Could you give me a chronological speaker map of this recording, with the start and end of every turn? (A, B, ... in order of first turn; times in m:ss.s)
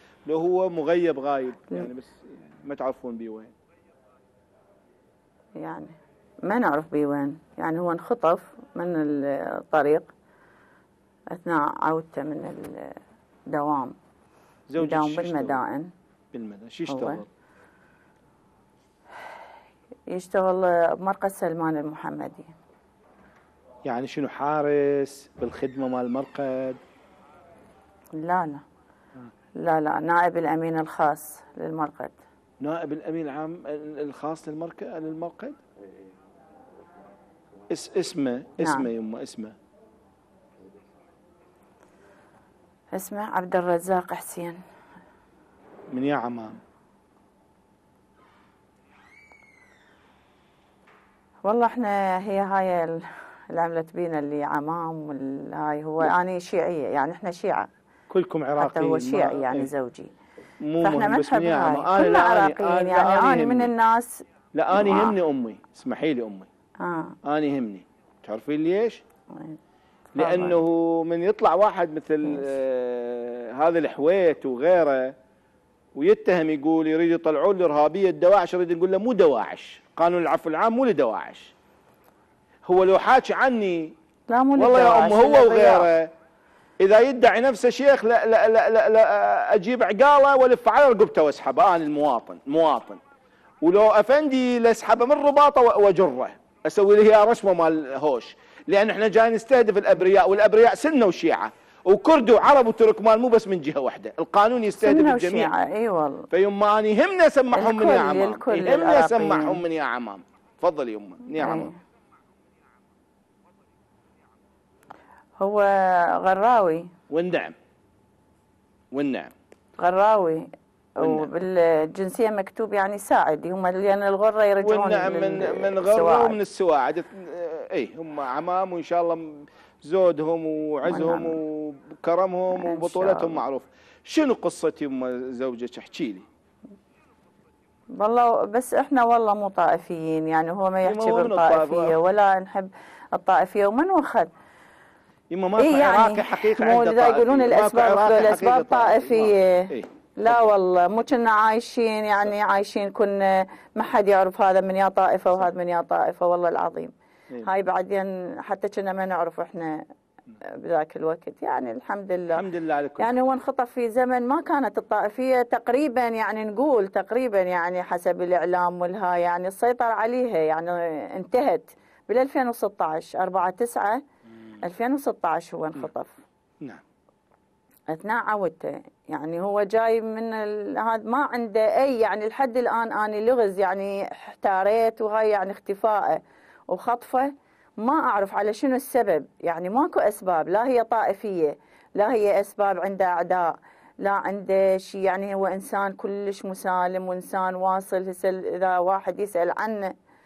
0:00.3-0:03.5 A
0:05.6-0:05.9 B
0:06.4-0:10.1 B
0:11.3-0:13.0 B
0:13.5-0:13.9 B
0:14.7-0:15.6 A
0:14.8-0:15.9 B
0:16.3-0:17.3 A
0:16.9-0:17.2 B
0:20.1-0:22.5 B
0:23.9-0:26.8 A
0:28.2-0:28.6 B
0:29.6-0:32.2 B
0:32.6-0:35.6 A
0:37.7-0:39.5 A
0:38.6-0:38.9 B
0:42.9-0:44.6 B
0:45.9-0:46.6 A
0:51.4-0:57.7 B
0:58.1-0:59.7 A
0:58.6-1:00.1 B
1:00.6-1:03.7 A
1:00.8-1:04.2 B
1:04.5-1:06.5 A
1:04.7-1:05.2 B
1:06.8-1:07.2 B
1:07.2-1:09.0 A
1:09.3-1:09.6 B
1:10.1-1:10.6 B
1:10.2-1:15.1 A
1:12.2-1:12.5 B
1:15.9-1:21.5 A
1:22.6-1:23.9 A
1:24.3-1:25.9 B
1:24.6-1:26.1 A
1:26.8-1:33.0 A
1:33.6-1:45.5 A
1:44.8-1:46.3 B
1:46.3-1:51.7 A
1:47.5-1:49.6 B
1:51.4-1:51.7 B
1:55.4-1:56.9 B
1:57.1-1:57.5 A
1:58.9-1:59.3 A
1:59.8-2:00.4 B
2:01.0-2:06.4 B
2:01.0-2:01.3 A
2:04.6-2:16.2 A
2:10.8-2:11.4 B
2:12.5-2:13.4 B
2:18.0-2:24.3 B
2:20.8-2:21.9 A
2:25.3-2:30.5 A
2:25.6-2:39.8 B
2:40.4-2:42.4 B
2:42.3-2:43.1 A
2:43.0-2:54.0 B
2:54.6-2:56.2 B
2:57.9-3:19.9 B